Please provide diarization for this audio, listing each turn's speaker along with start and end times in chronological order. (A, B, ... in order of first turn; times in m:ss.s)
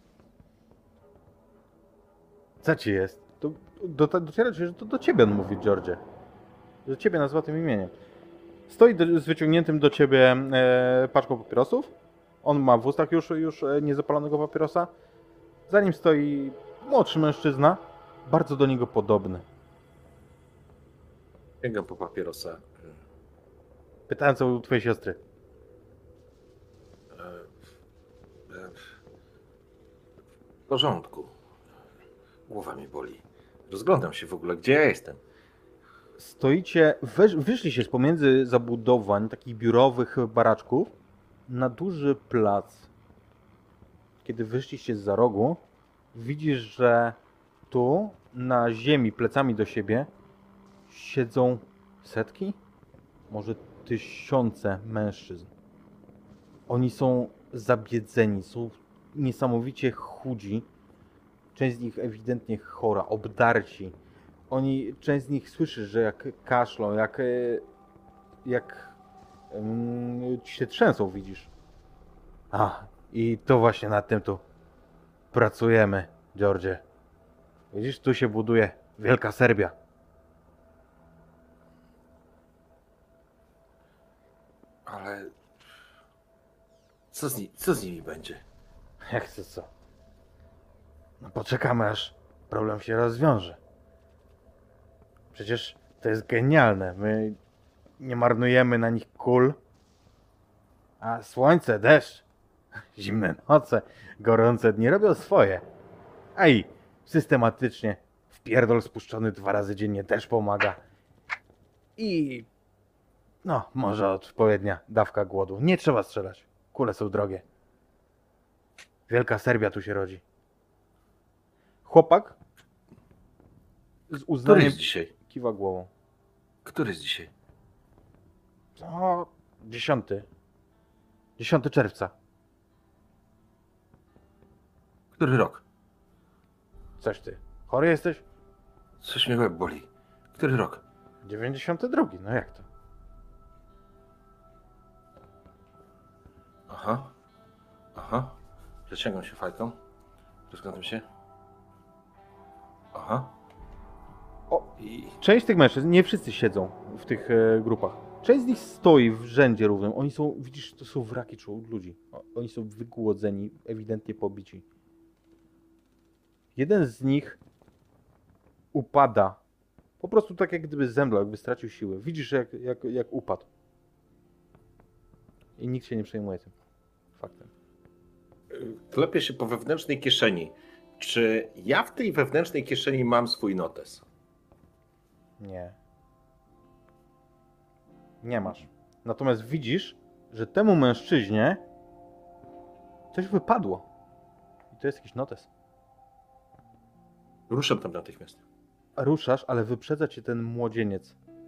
0:02.6-0:06.0 A
0:06.8-0:07.9 A
0:08.7-0:14.9 A
0:15.7-0:19.4 A
0:21.6-0:23.0 B
0:24.1-0:25.2 A
0:27.1-0:27.5 B
0:28.5-0:28.8 B
0:30.7-0:31.3 B
0:32.5-0:35.2 B
0:36.2-0:40.9 A
0:41.5-0:42.9 A
0:44.2-0:45.6 A
0:46.1-0:47.2 A
0:47.7-0:50.1 A
0:50.9-0:52.6 A
0:53.3-0:55.5 A
0:56.7-1:00.7 A
1:01.5-1:03.9 A
1:04.5-1:07.6 A
1:08.4-1:09.0 A
1:09.5-1:11.5 A
1:12.5-1:14.4 A
1:15.3-1:16.8 A
1:17.7-1:19.7 A
1:24.8-1:25.3 B
1:27.1-1:28.4 B
1:29.0-1:29.7 A
1:31.2-1:33.6 A
1:35.3-1:37.4 A
1:38.0-1:39.6 A
1:41.0-1:42.2 A
1:42.9-1:45.6 A
1:46.4-1:50.8 A
1:52.0-1:52.5 A
1:53.4-1:57.4 A
1:59.1-2:00.2 A
2:01.8-2:02.4 A
2:04.1-2:05.9 A
2:04.4-2:05.1 B
2:06.6-2:07.3 B
2:08.8-2:10.3 A
2:11.4-2:12.1 A
2:15.2-2:15.6 B
2:17.0-2:18.2 A
2:19.0-2:20.8 B
2:21.2-2:22.7 A
2:26.7-2:27.1 B
2:27.9-2:29.8 B
2:30.5-2:31.0 B
2:32.9-2:33.3 B
2:34.5-2:44.6 A
2:46.6-2:47.4 A
2:48.7-2:49.4 A
2:50.0-2:53.5 A
2:55.6-2:56.5 A
2:57.2-2:57.5 A
2:58.5-3:04.0 B
3:05.4-3:05.8 A
3:08.2-3:11.6 A
3:13.1-3:13.8 A
3:14.7-3:15.5 A
3:17.5-3:18.4 B
3:19.0-3:21.2 A